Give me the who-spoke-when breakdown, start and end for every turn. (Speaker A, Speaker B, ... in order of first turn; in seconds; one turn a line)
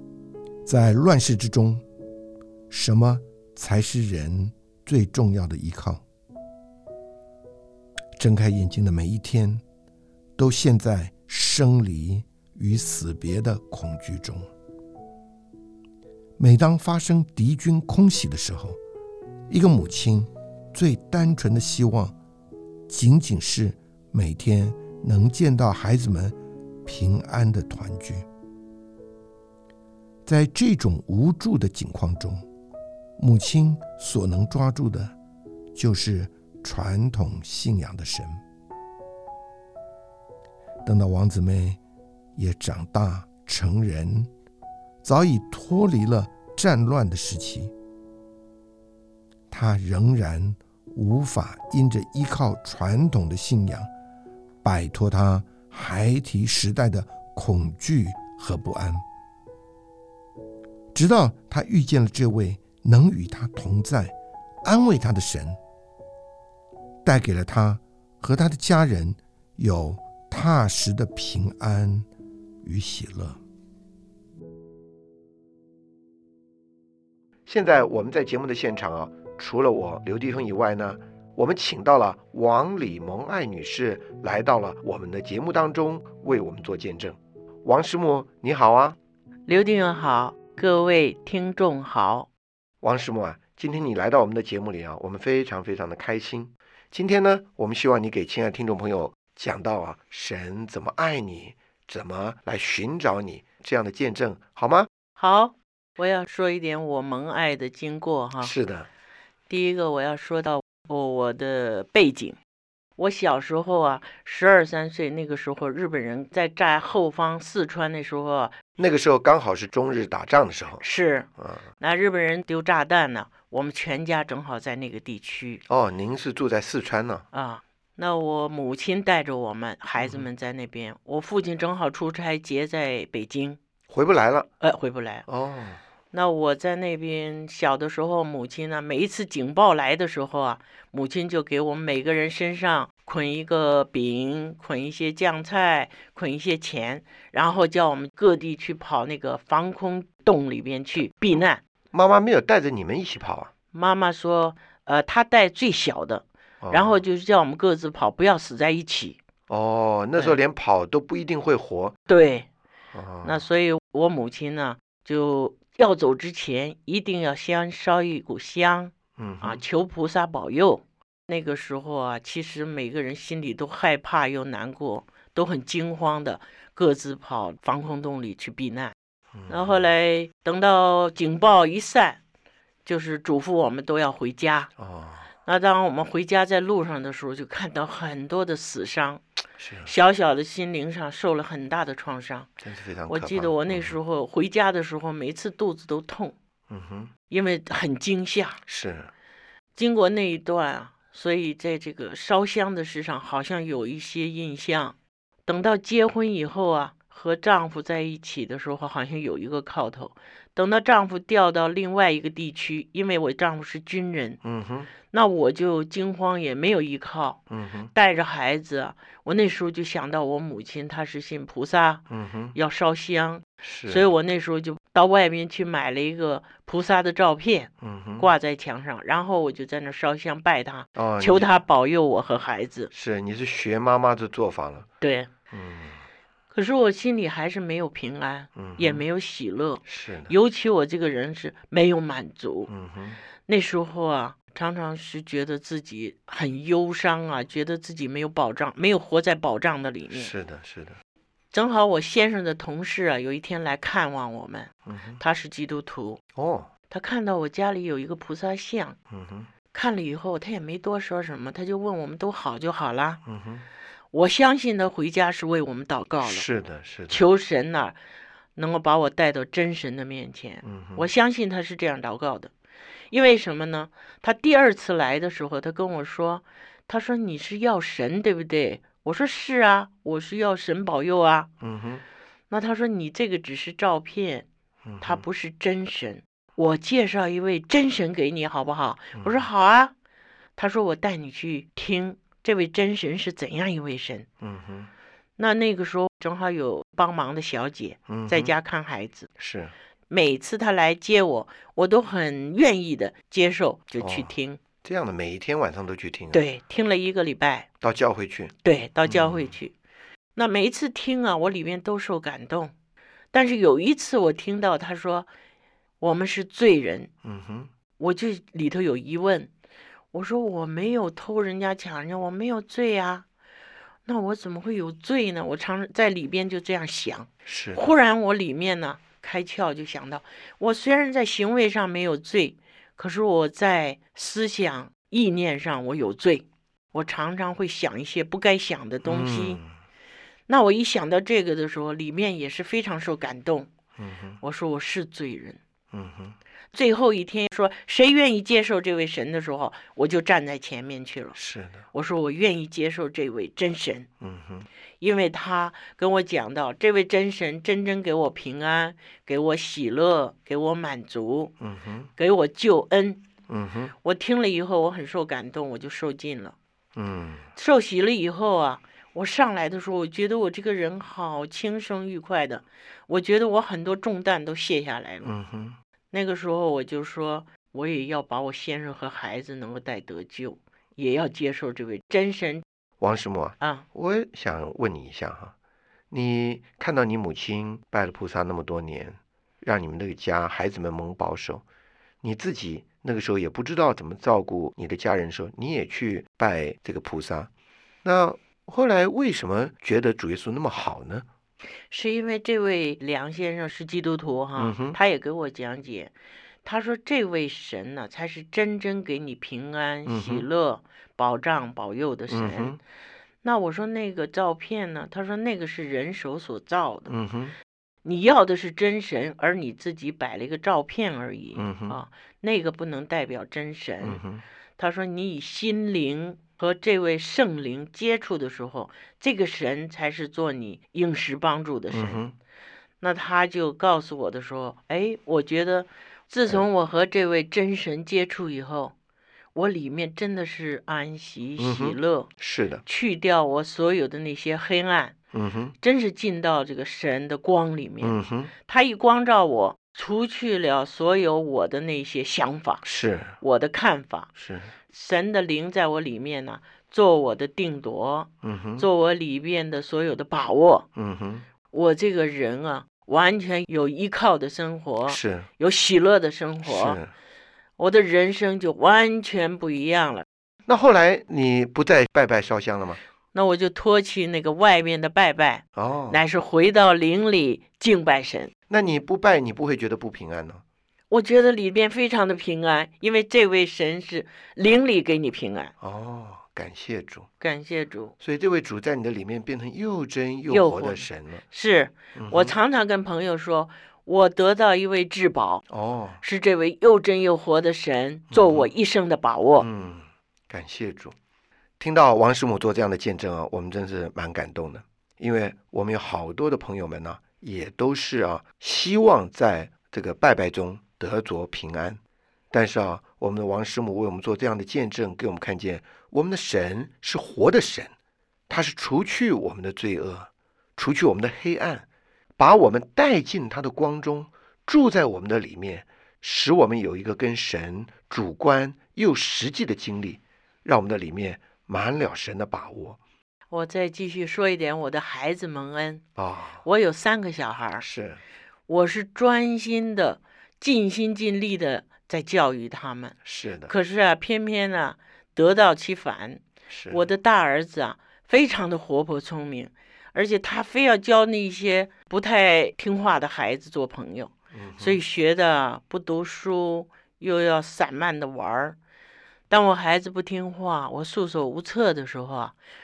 Speaker A: 0.7-1.8
Speaker A: 2.7-6.0
Speaker A: 8.2-9.6
Speaker A: 10.4-14.5
Speaker A: 16.4-18.8
Speaker A: 19.5-22.1
Speaker A: 22.9-28.3
Speaker A: 30.3-32.4
Speaker A: 33.2-35.1
Speaker A: 35.8-38.4
Speaker A: 40.9-41.8
Speaker A: 42.4-44.3
Speaker A: 45.0-47.7
Speaker A: 49.5-53.9
Speaker A: 54.6-59.0
Speaker A: 60.9-65.6
Speaker A: 67.0-72.1
Speaker A: 72.6-73.4
Speaker A: 77.5-89.0
Speaker B: 89.5-92.3
Speaker A: 92.8-104.9
Speaker B: 105.2-108.5
Speaker A: 108.4-108.9
Speaker B: 109.5-112.4
Speaker B: 113.0-118.6
Speaker A: 118.8-120.8
Speaker B: 120.8-125.6
Speaker A: 121.4-121.6
Speaker A: 125.7-127.2
Speaker B: 127.3-133.6
Speaker A: 130.0-130.3
Speaker A: 133.9-134.5
Speaker B: 134.6-135.2
Speaker A: 135.3-135.8
Speaker B: 136.1-151.6
Speaker A: 151.9-153.5
Speaker B: 153.7-159.2
Speaker A: 156.6-157.0
Speaker A: 159.5-161.9
Speaker B: 162.1-162.5
Speaker A: 162.9-163.4
Speaker B: 163.2-178.9
Speaker A: 169.2-169.6
Speaker A: 179.4-179.9
Speaker B: 179.5-182.2
Speaker B: 182.8-184.7
Speaker A: 184.8-185.3
Speaker B: 185.4-189.2
Speaker A: 189.6-189.9
Speaker B: 189.9-192.5
Speaker A: 192.6-194.0
Speaker B: 193.1-196.3
Speaker A: 196.7-197.1
Speaker B: 197.3-198.6
Speaker A: 198.7-199.1
Speaker B: 199.8-214.4
Speaker A: 214.4-214.9
Speaker B: 215.1-232.9
Speaker A: 217.5-217.9
Speaker A: 222.1-222.6
Speaker A: 223.6-224.1
Speaker A: 227.8-228.3
Speaker A: 231.0-231.5
Speaker A: 232.9-234.9
Speaker B: 235.0-235.3
Speaker A: 235.5-236.0
Speaker B: 236.5-242.7
Speaker A: 238.6-239.0
Speaker A: 239.9-240.3
Speaker A: 242.7-243.2
Speaker B: 243.5-250.3
Speaker A: 250.1-251.0
Speaker B: 251.5-256.2
Speaker A: 254.9-255.2
Speaker A: 256.4-256.7
Speaker B: 256.9-259.0
Speaker A: 259.1-259.5
Speaker B: 259.7-263.2
Speaker A: 263.3-263.7
Speaker B: 264.1-266.4
Speaker A: 266.2-267.2
Speaker B: 267.1-268.0
Speaker B: 268.6-272.5
Speaker A: 270.6-271.1
Speaker B: 273.1-281.5
Speaker A: 281.6-282.0
Speaker B: 282.5-284.5
Speaker A: 284.9-285.2
Speaker B: 285.0-289.9
Speaker A: 289.1-289.5
Speaker B: 290.6-294.3
Speaker A: 294.4-294.9
Speaker B: 295.4-299.3
Speaker A: 298.1-298.5
Speaker A: 299.4-299.7
Speaker B: 300.1-304.6
Speaker A: 304.0-304.3
Speaker A: 304.8-306.4
Speaker B: 306.3-307.7
Speaker A: 307.8-309.5
Speaker B: 308.6-309.7
Speaker B: 310.4-312.7
Speaker B: 313.3-315.3
Speaker B: 316.0-317.1
Speaker A: 317.2-317.7
Speaker B: 318.0-319.5
Speaker B: 320.1-323.3
Speaker B: 324.1-339.6
Speaker A: 327.5-327.9
Speaker A: 339.0-339.7
Speaker B: 340.5-343.7
Speaker A: 344.0-344.4
Speaker B: 344.4-345.6
Speaker A: 345.9-346.4
Speaker B: 346.7-351.4
Speaker A: 351.4-351.8
Speaker B: 351.9-354.1
Speaker A: 354.2-354.7
Speaker B: 355.0-361.5
Speaker A: 361.6-362.1
Speaker B: 362.2-363.2
Speaker A: 363.5-363.9
Speaker B: 364.0-366.6
Speaker A: 366.9-367.4
Speaker B: 367.6-375.3
Speaker A: 375.2-375.8
Speaker B: 376.1-382.6
Speaker A: 383.0-385.5
Speaker A: 386.1-391.6
Speaker A: 392.2-397.5
Speaker A: 398.0-401.3
Speaker B: 401.9-406.1
Speaker A: 404.6-405.0
Speaker B: 406.6-412.8
Speaker A: 410.1-410.5
Speaker A: 412.3-412.8
Speaker B: 413.4-417.1
Speaker A: 417.1-417.6
Speaker B: 418.1-424.2
Speaker A: 421.6-422.0
Speaker A: 424.0-424.4
Speaker B: 424.8-432.2
Speaker A: 431.9-432.4
Speaker B: 433.0-438.9
Speaker B: 439.6-442.3
Speaker A: 441.6-442.8
Speaker B: 442.9-445.2
Speaker A: 445.3-445.7
Speaker B: 445.8-452.8
Speaker A: 448.0-448.5
Speaker A: 452.8-453.4
Speaker B: 453.4-454.3
Speaker A: 454.4-454.7
Speaker B: 454.9-460.9
Speaker A: 458.4-458.9
Speaker A: 461.0-461.4
Speaker B: 461.7-467.0
Speaker A: 465.1-465.5
Speaker A: 466.6-467.1
Speaker B: 467.8-470.2
Speaker A: 470.7-473.0
Speaker B: 473.3-478.5
Speaker A: 475.8-476.2
Speaker A: 478.7-480.6
Speaker B: 481.1-485.7
Speaker A: 485.8-487.3
Speaker B: 487.4-488.1
Speaker A: 488.2-491.4
Speaker B: 490.5-495.6
Speaker A: 492.1-492.6
Speaker A: 495.7-496.2
Speaker B: 496.2-499.7
Speaker A: 498.3-498.7
Speaker A: 499.6-501.1
Speaker A: 501.8-512.0
Speaker A: 512.5-517.9
Speaker A: 518.5-521.9
Speaker A: 522.4-533.0
Speaker B: 533.5-536.0
Speaker A: 536.2-536.6
Speaker B: 536.6-537.9
Speaker A: 537.8-538.2
Speaker B: 538.7-543.1
Speaker A: 543.2-543.7
Speaker B: 543.7-558.8
Speaker A: 546.7-547.1
Speaker A: 554.5-555.0
Speaker B: 559.5-562.6